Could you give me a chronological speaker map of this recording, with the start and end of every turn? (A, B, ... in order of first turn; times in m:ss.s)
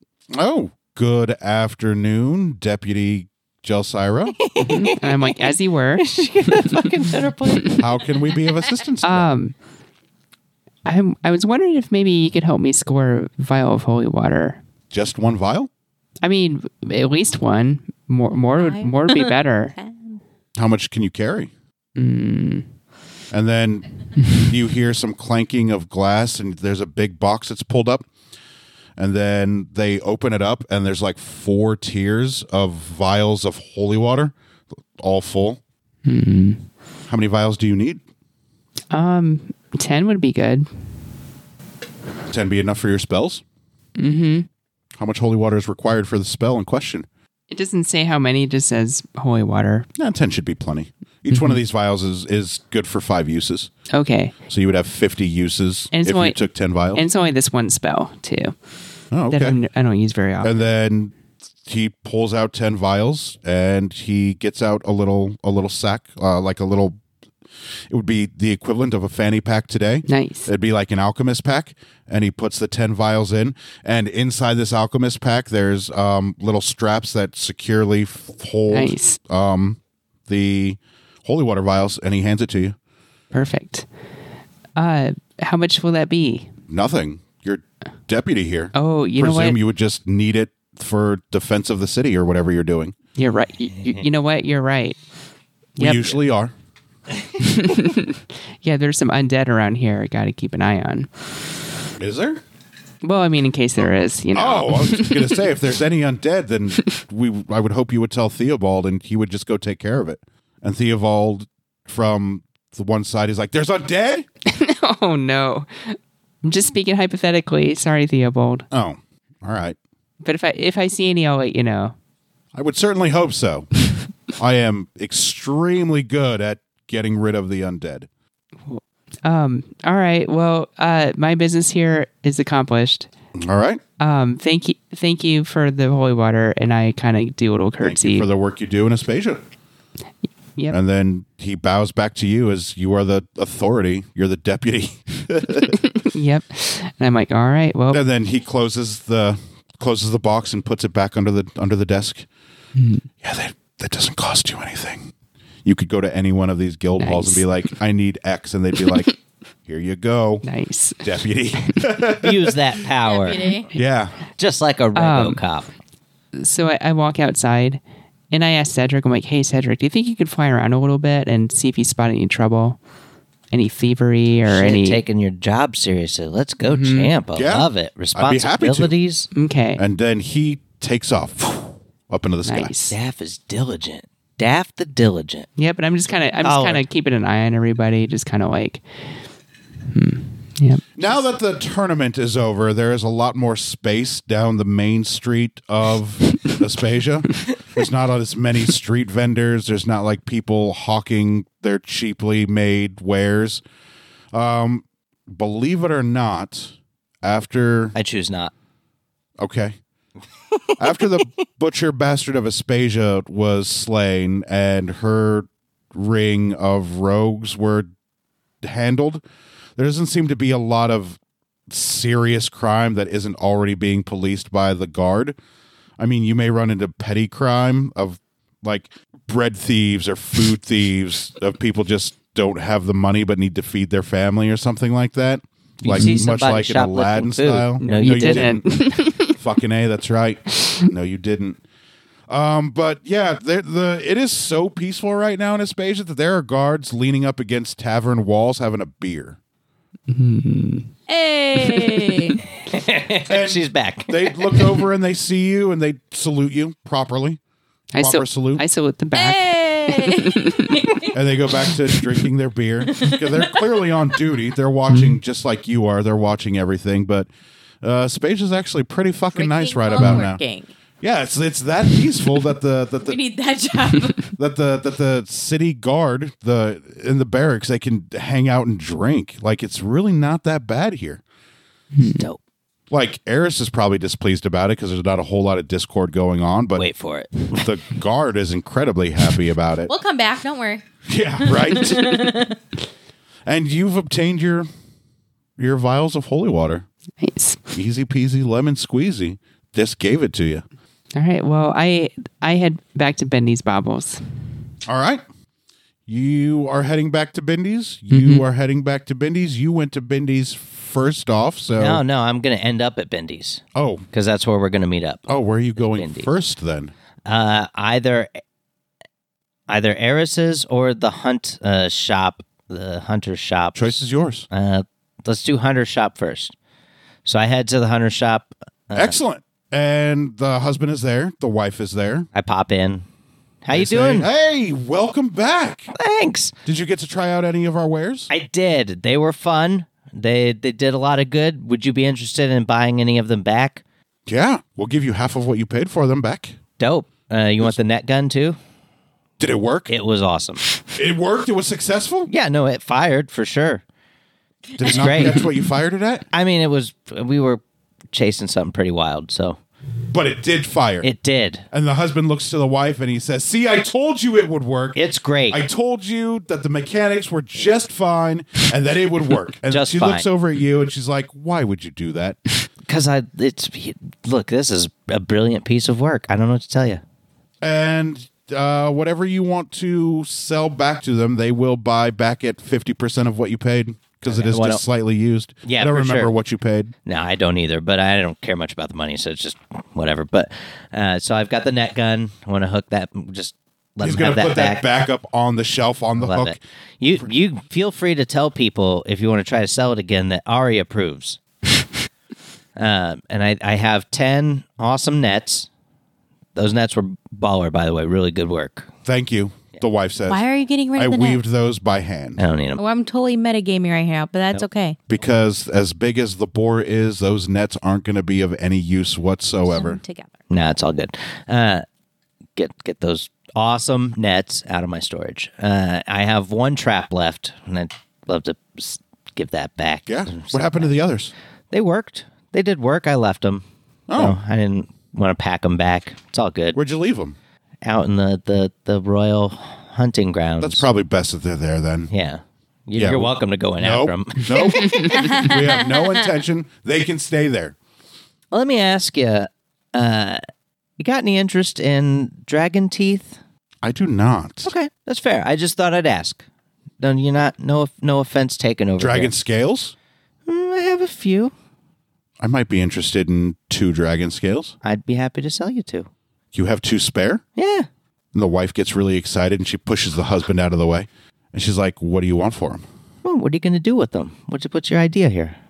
0:00.3-0:04.4 A
0:04.4-0:07.8 B
0:04.6-0:06.9 C
0:07.8-0:09.3 A
0:09.0-0:09.5 C
0:10.8-0:14.6 C
0:14.9-0:15.7 A
0:16.2-0:19.7 C
0:18.6-0:19.1 D
0:19.7-0:20.2 D
0:20.6-0:21.5 A
0:21.9-0:22.7 C
0:23.3-0:28.1 A
0:29.0-0:34.3 A
0:35.0-0:35.6 A
0:36.0-0:36.6 C
0:37.1-0:38.0 A
0:38.9-0:40.7 C
0:42.3-0:43.4 A
0:44.0-0:44.5 C
0:45.0-0:47.1 A
0:47.5-0:49.9 C
0:50.0-0:53.7 A
0:51.3-0:51.6 C
0:53.9-0:54.3 C
0:54.5-0:57.0 A
0:55.9-0:56.4 C
0:56.9-0:58.6 C
0:59.1-0:59.6 A
0:59.3-1:00.5 C
1:00.4-1:01.1 A
1:01.6-1:07.0 A
1:07.9-1:22.8 A
1:10.1-1:10.5 C
1:18.7-1:19.2 C
1:23.3-1:23.8 C
1:24.8-1:26.5 C
1:26.7-1:33.0 A
1:28.7-1:29.6 C
1:33.2-1:35.0 C
1:35.8-1:36.2 C
1:35.8-1:36.5 A
1:37.4-1:41.2 C
1:42.0-1:42.4 A
1:43.0-1:45.4 C
1:44.3-1:54.2 A
1:54.4-1:58.7 C
1:58.7-1:59.8 A
2:00.2-2:01.9 C
2:02.5-2:03.7 A
2:04.4-2:08.1 A
2:08.7-2:13.1 C
2:13.4-2:13.8 A
2:14.0-2:18.3 C
2:17.8-2:19.4 A
2:20.7-2:25.8 A
2:25.9-2:28.0 C
2:27.9-2:32.3 A
2:32.8-2:33.0 C
2:33.2-2:35.1 A
2:35.6-2:40.4 A
2:37.0-2:37.4 C
2:40.4-2:41.1 C
2:41.0-2:42.6 A
2:42.2-2:43.6 B
2:43.0-2:43.6 D
2:43.7-2:44.1 A
2:44.4-2:45.7 B
2:44.9-2:45.4 C
2:46.4-2:52.8 C
2:53.5-2:55.0 C
2:54.5-2:59.3 B
2:56.6-2:57.1 C
2:57.3-2:58.9 A
2:59.3-2:59.8 C
2:59.8-3:02.7 A
3:02.4-3:03.0 C
3:02.9-3:05.5 B
3:05.6-3:08.8 C
3:06.4-3:06.8 B
3:09.9-3:10.9 C
3:11.0-3:23.6 A
3:24.3-3:28.0 A
3:28.0-3:28.5 B
3:29.4-3:29.8 A
3:30.8-3:37.9 A
3:38.6-3:39.2 A
3:39.8-3:45.4 A
3:46.0-4:01.6 A
3:55.8-3:58.5 B
3:55.9-3:56.2 C
3:57.8-3:59.4 C
4:02.3-4:09.4 A
4:10.1-4:10.9 C
4:11.1-4:12.4 D
4:11.6-4:12.4 C
4:12.6-4:14.8 B
4:13.3-4:17.4 A
4:17.9-4:21.0 C
4:18.0-4:18.6 A
4:19.1-4:21.1 D
4:21.1-4:27.3 A
4:22.9-4:23.6 D
4:24.9-4:25.2 C
4:27.8-4:30.4 A
4:29.3-4:30.7 D
4:31.0-4:33.2 A
4:33.1-4:34.3 D
4:34.4-4:41.2 A
4:41.9-4:42.2 C
4:42.9-4:46.8 A
4:46.8-4:47.7 B
4:47.5-4:49.9 A
4:49.9-4:50.8 D
4:51.1-4:52.2 A
4:51.4-4:52.6 D
4:53.4-4:54.7 A
4:55.6-4:56.8 A
4:57.2-4:57.6 C
4:57.7-5:00.6 A
5:01.2-5:04.2 C
5:04.8-5:05.2 A
5:06.1-5:12.0 A
5:08.1-5:08.4 C
5:11.7-5:13.6 B
5:13.7-5:14.0 A
5:14.1-5:15.2 B
5:15.3-5:16.9 A
5:15.8-5:16.3 B
5:17.2-5:18.3 B
5:19.7-5:23.9 B
5:23.7-5:24.5 A
5:24.5-5:26.5 B
5:27.2-5:29.1 B
5:28.9-5:32.3 A
5:32.3-5:33.0 B
5:33.6-5:34.3 B
5:33.7-5:35.9 A
5:35.9-5:36.5 B
5:36.6-5:38.3 A
5:38.3-5:43.8 B
5:44.3-5:46.6 A
5:46.8-5:48.6 B
5:49.4-5:49.9 A
5:49.9-5:50.6 B
5:50.8-5:52.3 A
5:52.3-5:53.8 B
5:54.8-5:56.2 A
5:54.8-5:55.5 B
5:56.3-5:57.6 B
5:58.1-5:59.6 B
6:00.1-6:01.1 A
6:01.0-6:01.6 B
6:01.7-6:12.4 A
6:04.9-6:05.6 B
6:09.6-6:10.3 B
6:12.9-6:17.0 B
6:17.6-6:26.9 A
6:24.3-6:24.8 B
6:25.6-6:26.3 B
6:27.0-6:34.8 B
6:34.0-6:36.6 A
6:36.2-6:41.4 B
6:42.8-6:45.7 B
6:46.6-6:48.9 B
6:49.0-6:50.4 A
6:50.3-6:51.4 D
6:51.0-6:52.4 A
6:52.4-6:52.8 B
6:52.8-6:55.0 D
6:55.1-7:00.0 A
6:59.6-7:00.3 D
7:00.5-7:01.8 B
7:02.6-7:10.9 B
7:10.1-7:11.3 A
7:11.7-7:16.8 B
7:14.1-7:14.4 A
7:16.7-7:17.4 A
7:17.8-7:20.8 B
7:20.6-7:22.1 A
7:22.1-7:25.0 B
7:23.0-7:27.7 A
7:24.8-7:25.2 C
7:25.3-7:25.7 D
7:28.5-7:30.4 B
7:31.0-7:33.4 B
7:33.8-7:34.7 A
7:34.6-7:36.4 B
7:37.0-7:39.3 B
7:39.0-7:39.9 A
7:40.4-7:41.5 B
7:42.4-7:44.8 A
7:44.8-7:46.1 B
7:46.5-7:47.4 A
7:47.6-7:47.9 B
7:48.3-7:52.8 A
7:53.2-7:55.6 B